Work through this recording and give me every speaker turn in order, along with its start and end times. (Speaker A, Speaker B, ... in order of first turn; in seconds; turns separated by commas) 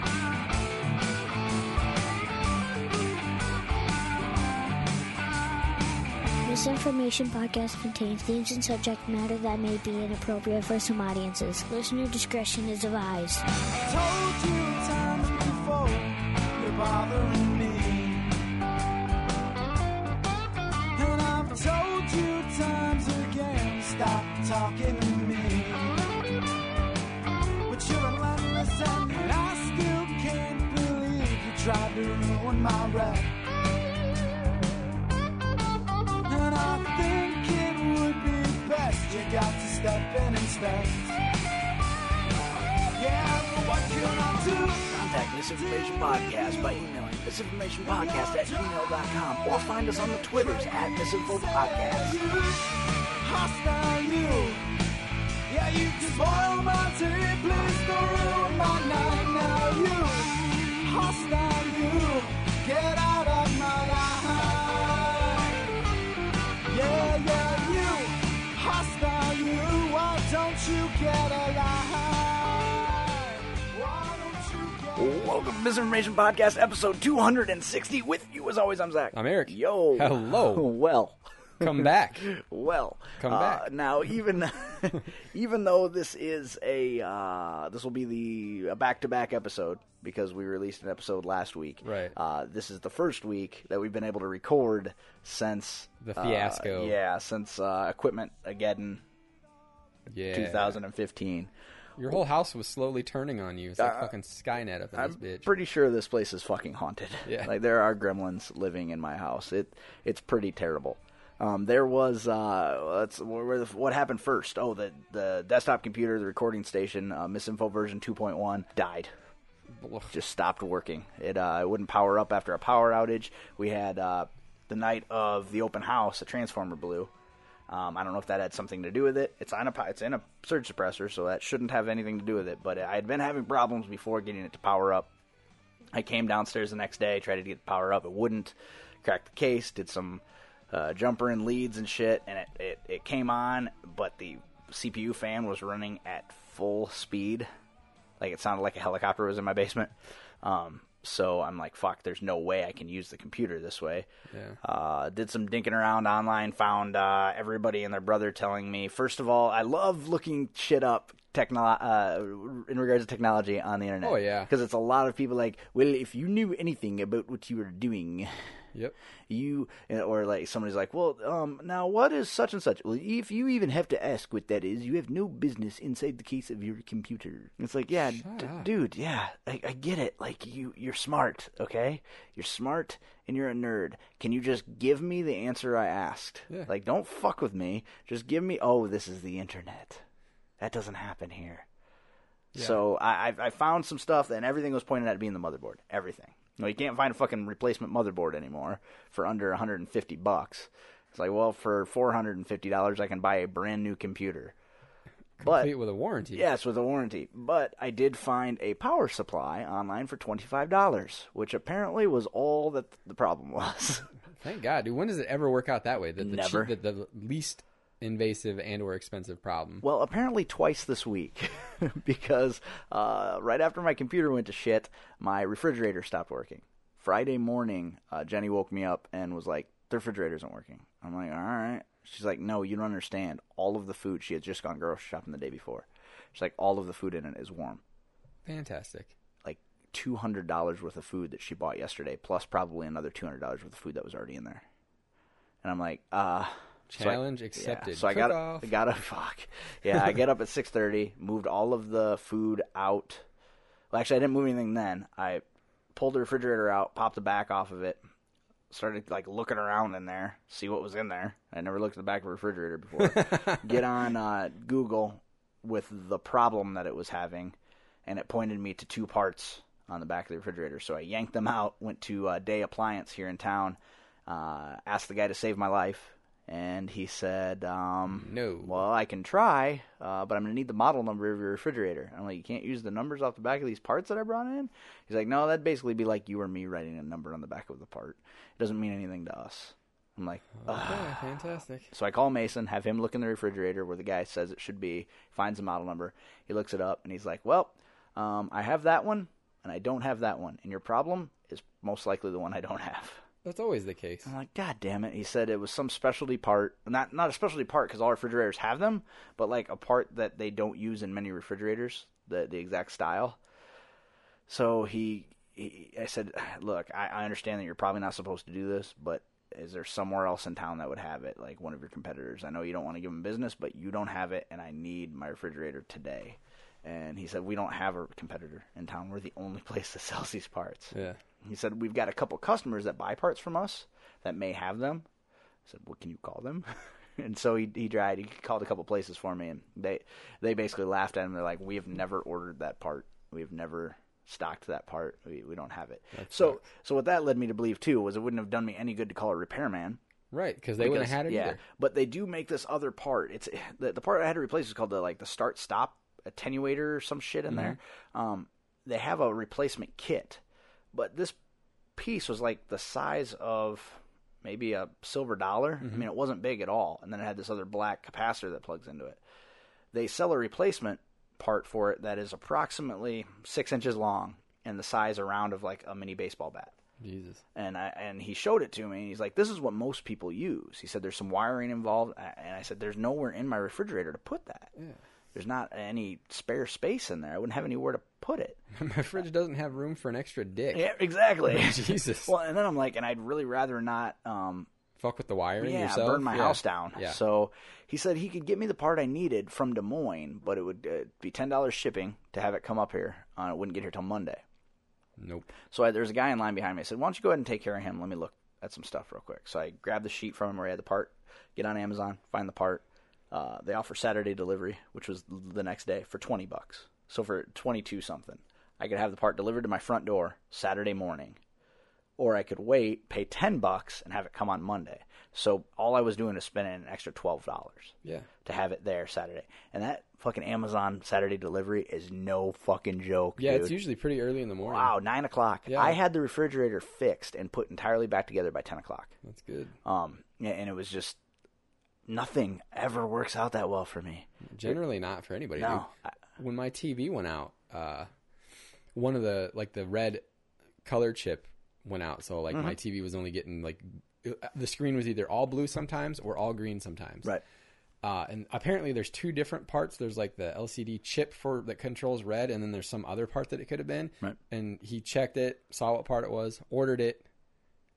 Speaker A: 6.4-13.4, Speaker B: 13.8-18.4, Speaker B: 20.9-25.9, Speaker B: 27.7-33.4, Speaker B: 36.3-41.2, Speaker B: 43.0-46.9, Speaker C: 44.9-52.2, Speaker B: 47.8-54.6, Speaker B: 55.5-65.7, Speaker B: 66.7-75.4, Speaker C: 75.0-99.0, Speaker D: 79.1-80.7, Speaker D: 81.6-82.3, Speaker D: 83.2-83.7, Speaker D: 91.8-92.2, Speaker D: 96.0-97.0, Speaker D: 100.1-100.8, Speaker C: 100.3-101.5, Speaker D: 102.0-105.5, Speaker C: 103.8-104.1, Speaker C: 105.0-119.1, Speaker D: 107.2-107.5, Speaker D: 119.7-120.1, Speaker C: 120.1-127.1, Speaker C: 127.7-135.1, Speaker C: 135.9-147.5, Speaker C: 148.2-154.1, Speaker D: 154.3-154.6, Speaker C: 154.6-168.3, Speaker D: 164.0-164.5, Speaker C: 169.3-190.0, Speaker D: 178.0-178.7, Speaker C: 190.6-191.6, Speaker D: 192.5-192.8, Speaker C: 192.5-204.5, Speaker D: 205.4-206.5, Speaker C: 205.4-205.7, Speaker C: 206.3-214.0, Speaker D: 214.4-219.8, Speaker C: 216.2-216.7, Speaker C: 219.8-237.8, Speaker D: 238.4-239.1, Speaker C: 239.4-244.6, Speaker C: 245.6-253.2, Speaker D: 246.9-248.7, Speaker C: 253.9-255.4, Speaker C: 255.9-258.0, Speaker C: 258.7-267.6, Speaker D: 263.0-263.8, Speaker C: 268.1-291.4, Speaker D: 278.1-278.8, Speaker D: 290.6-291.9, Speaker C: 291.9-303.2, Speaker D: 303.4-304.3, Speaker C: 304.2-313.4, Speaker C: 314.5-335.1, Speaker D: 330.9-331.2, Speaker C: 335.7-350.0, Speaker D: 346.1-346.6, Speaker D: 350.3-351.6, Speaker C: 350.8-360.4, Speaker D: 357.5-357.8, Speaker C: 360.9-361.4, Speaker C: 362.0-369.2, Speaker D: 365.8-366.1, Speaker C: 369.9-376.7, Speaker D: 377.0-377.4, Speaker C: 377.6-384.7, Speaker C: 385.3-388.6, Speaker D: 388.7-392.3, Speaker C: 390.7-394.7, Speaker D: 395.0-397.2, Speaker C: 395.6-404.4, Speaker D: 405.2-405.5, Speaker C: 405.7-421.4, Speaker C: 422.2-433.8, Speaker D: 433.4-434.9, Speaker C: 434.7-439.1, Speaker D: 435.7-436.0, Speaker D: 439.2-439.8, Speaker C: 439.9-441.2, Speaker C: 442.1-444.8, Speaker D: 444.5-448.1, Speaker C: 445.6-446.0, Speaker D: 448.9-450.2, Speaker D: 450.8-457.3, Speaker D: 458.0-467.2